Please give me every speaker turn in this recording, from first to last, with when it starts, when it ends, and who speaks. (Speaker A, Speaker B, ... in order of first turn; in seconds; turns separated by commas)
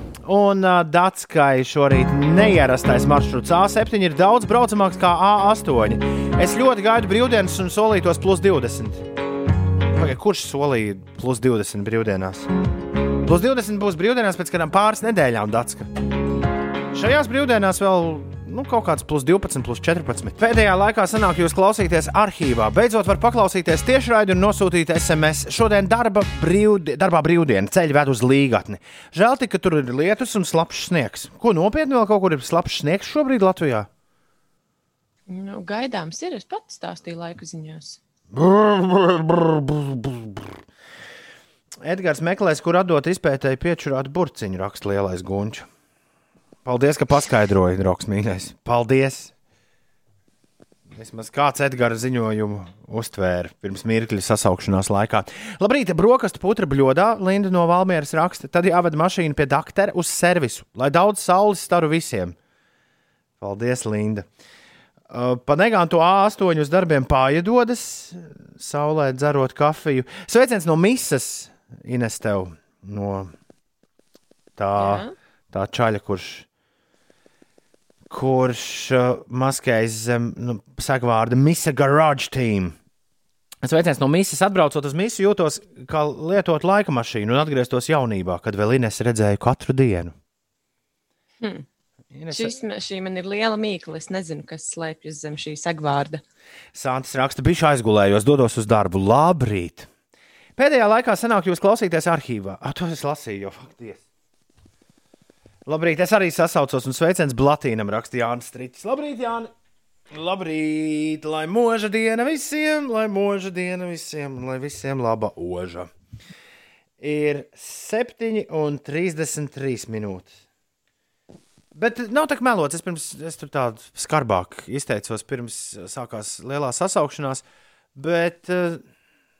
Speaker A: 0.2-9.0, Speaker A: 9.9-12.5, Speaker A: 13.2-15.9, Speaker A: 16.9-33.9, Speaker B: 35.3-38.0, Speaker A: 38.3-40.5, Speaker A: 41.8-45.6, Speaker A: 46.6-49.3, Speaker A: 50.9-62.4, Speaker A: 63.4-64.2, Speaker A: 65.1-73.3, Speaker A: 74.6-76.5, Speaker B: 74.8-75.1, Speaker A: 78.1-82.7, Speaker A: 83.6-90.1, Speaker A: 92.1-92.5, Speaker B: 92.3-96.2, Speaker A: 96.7-99.9, Speaker A: 100.6-104.0, Speaker A: 105.7-109.5, Speaker A: 110.1-115.9, Speaker A: 117.0-120.3, Speaker A: 121.7-127.4, Speaker A: 128.0-128.8